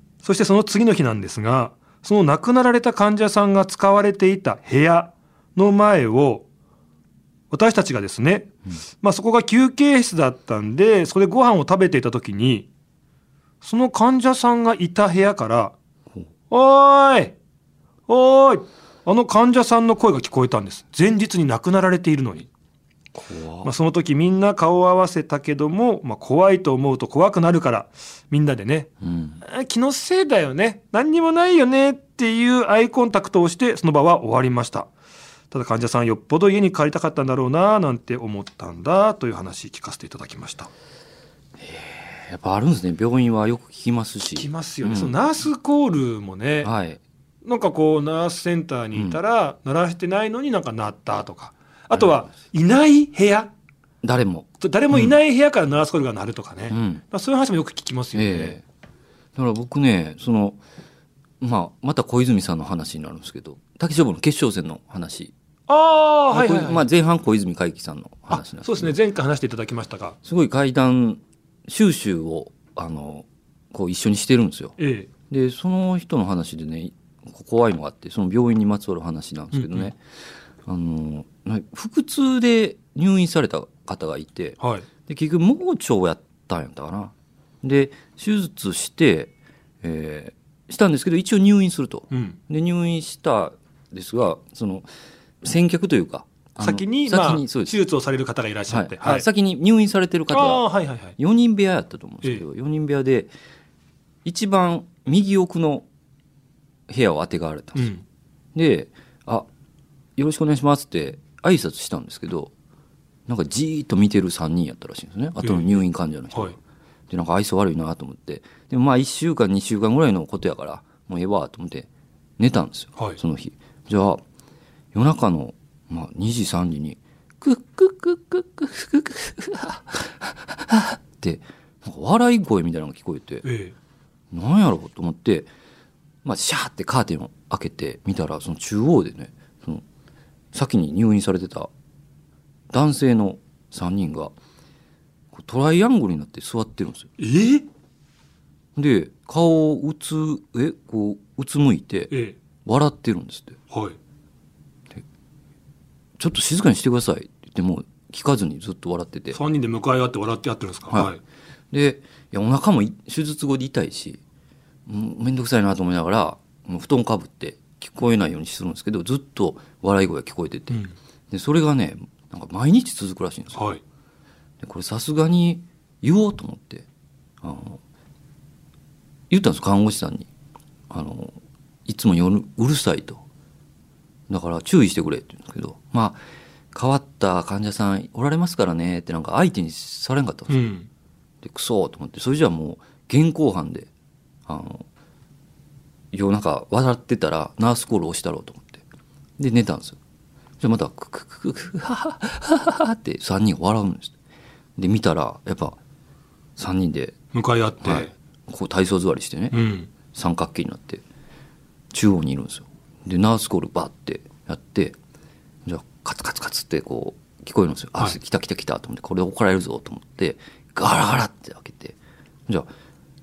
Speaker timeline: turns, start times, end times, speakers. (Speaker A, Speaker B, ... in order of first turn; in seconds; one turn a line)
Speaker A: 0.2-6.5
Speaker A: 7.5-12.7
Speaker A: 13.6-15.8
Speaker A: 16.5-17.4
Speaker A: 18.1-22.5
Speaker B: 23.2-23.7
Speaker A: 23.6-28.9
Speaker B: 29.0-29.4
Speaker A: 29.4-34.9
Speaker A: 35.5-40.7
Speaker B: 41.6-45.2
Speaker A: 44.4-46.7
Speaker B: 46.6-47.0
Speaker A: 47.5-53.5
Speaker B: 48.9-49.2
Speaker B: 51.9-52.2
Speaker B: 54.0-55.1
Speaker A: 54.6-58.6
Speaker B: 56.7-57.0
Speaker B: 58.1-58.6
Speaker B: 59.4-60.6
Speaker B: 61.4-65.3
Speaker A: 65.7-66.9
Speaker B: 66.3-69.0
Speaker A: 68.3-70.2
Speaker B: 70.2-74.8
Speaker A: 74.8-75.1
Speaker B: 75.3-80.0
Speaker A: 79.5-79.9
Speaker B: 80.7-94.9
Speaker A: 84.6-84.9
Speaker A: 92.1-92.4
Speaker B: 95.4-97.8
Speaker A: 96.6-99.3
Speaker B: 98.7-100.7
Speaker A: 100.3-101.2
Speaker B: 101.2-103.3
Speaker B: 104.2-105.9
Speaker B: 106.9-107.9
Speaker A: 107.8-108.0
Speaker B: 108.5-109.5
Speaker B: 110.2-112.5
Speaker B: 113.3-116.6
Speaker A: 115.4-116.5
Speaker B: 117.1-121.9
Speaker B: 122.4-124.2
Speaker B: 124.9-133.4
Speaker A: 133.4-133.8
Speaker B: 134.3-135.5
Speaker B: 136.2-139.8
Speaker B: 140.5-141.7
Speaker B: 142.7-144.3
Speaker B: 145.3-147.1
Speaker A: 147.2-147.7
Speaker B: 148.8-152.1
Speaker B: 152.7-153.6
Speaker A: 153.7-154.0
Speaker B: 156.2-159.4
Speaker A: 159.3-161.2
Speaker B: 161.7-164.2
Speaker B: 164.9-173.7
Speaker A: 173.6-173.8
Speaker B: 174.6-176.9
Speaker B: 177.4-177.8
Speaker B: 179.3-180.3
Speaker B: 180.9-181.3
Speaker B: 181.9-183.2
Speaker B: 184.3-186.2
Speaker B: 186.7-190.6
Speaker A: 190.5-190.9
Speaker B: 191.4-193.9
Speaker B: 194.5-194.8
Speaker B: 196.1-198.8
Speaker B: 199.4-200.0
Speaker B: 200.6-204.1
Speaker B: 204.8-205.8
Speaker B: 206.6-207.2
Speaker A: 207.3-208.1
Speaker B: 207.8-209.6
Speaker A: 209.5-209.9
Speaker B: 210.1-211.0
Speaker B: 211.9-215.0
Speaker B: 215.7-222.7